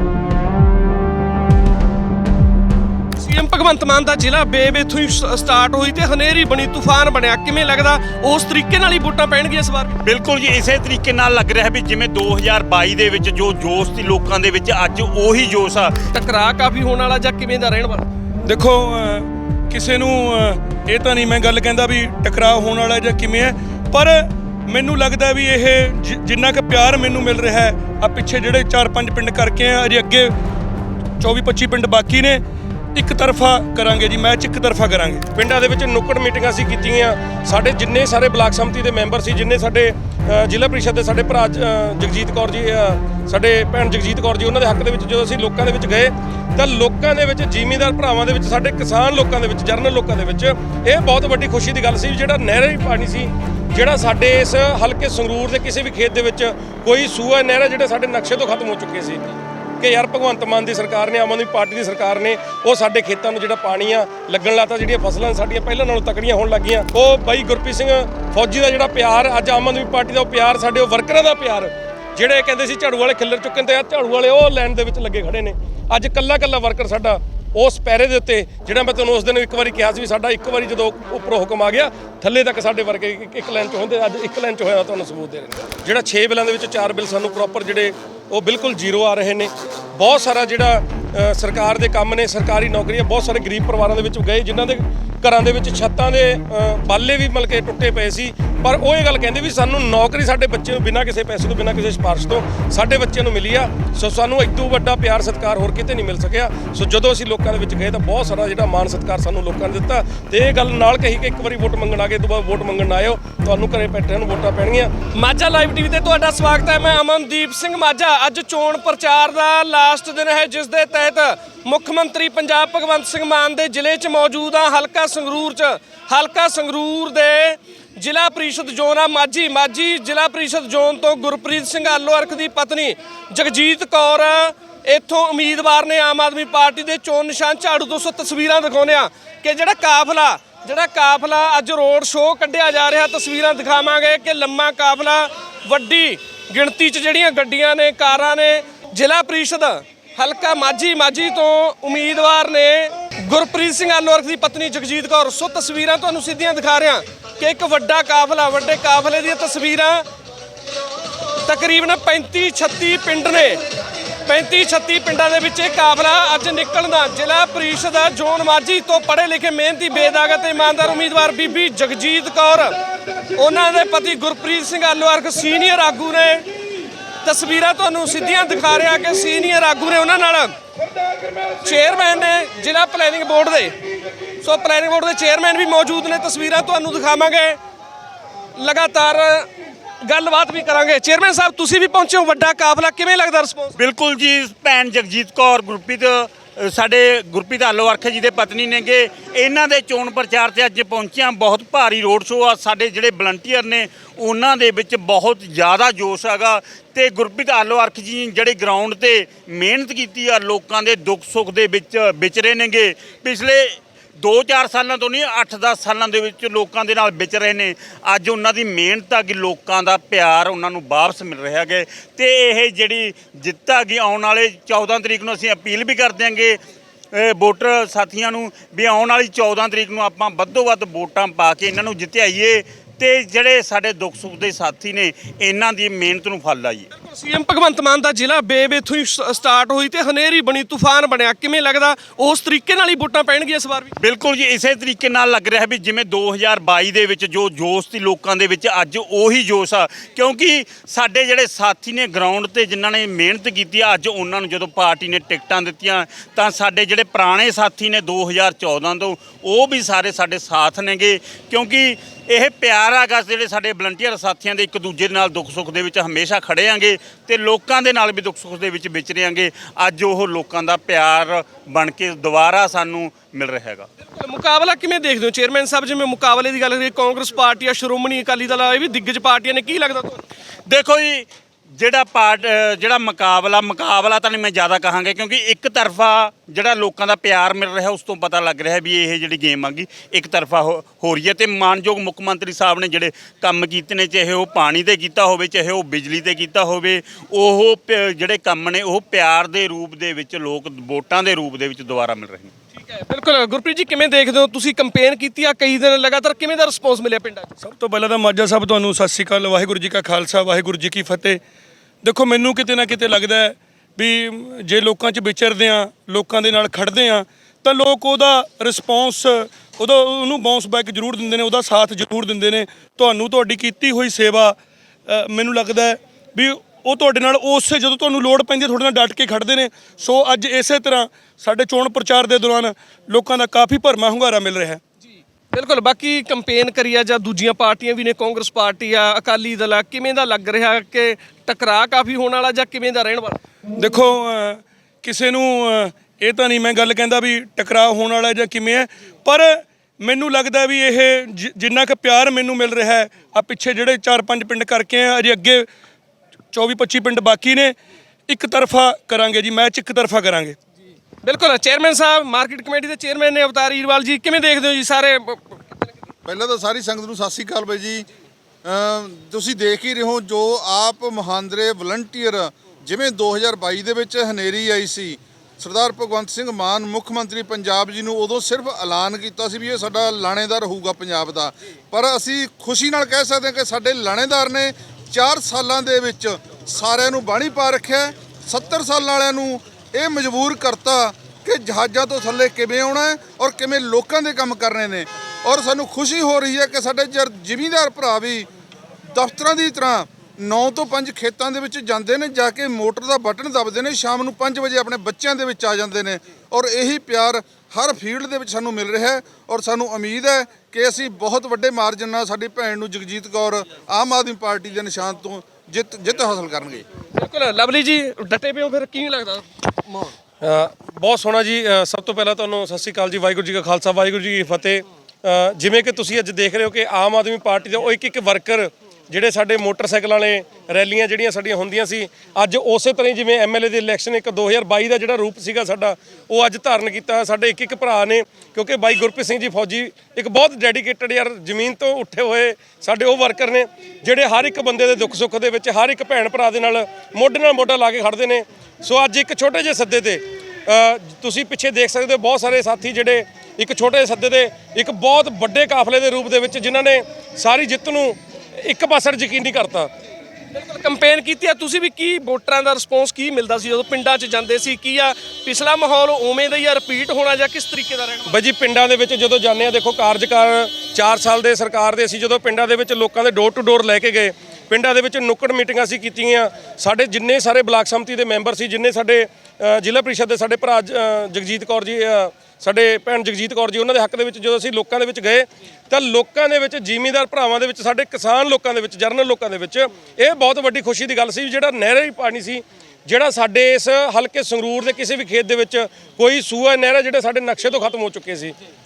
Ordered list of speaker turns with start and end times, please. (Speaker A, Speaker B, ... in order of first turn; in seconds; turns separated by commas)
Speaker A: 3.2-10.0, Speaker B: 10.0-15.9, Speaker A: 16.1-18.1, Speaker C: 18.4-30.3, Speaker C: 31.2-32.4, Speaker C: 33.0-35.3, Speaker D: 35.3-59.2, Speaker D: 59.8-114.9, Speaker A: 115.2-160.1, Speaker A: 161.4-163.6, Speaker A: 164.3-172.8, Speaker A: 173.4-176.5, Speaker A: 177.2-180.5, Speaker A: 181.6-183.9, Speaker A: 184.4-187.6, Speaker A: 188.6-189.5, Speaker A: 190.0-193.8, Speaker B: 193.8-226.6, Speaker B: 227.1-236.9, Speaker A: 236.9-243.9, Speaker B: 244.0-273.9, Speaker A: 274.1-280.2, Speaker B: 280.7-302.5, Speaker A: 302.8-307.5, Speaker C: 307.6-311.4, Speaker C: 312.0-334.8, Speaker A: 335.5-343.4, Speaker C: 343.8-355.7, Speaker C: 356.5-357.8, Speaker C: 358.3-360.6, Speaker A: 361.2-365.6, Speaker E: 366.2-368.1, Speaker E: 368.6-398.5, Speaker E: 399.1-416.9, Speaker A: 417.1-420.1, Speaker D: 420.4-459.9, Speaker A: 460.5-468.3, Speaker D: 468.3-498.6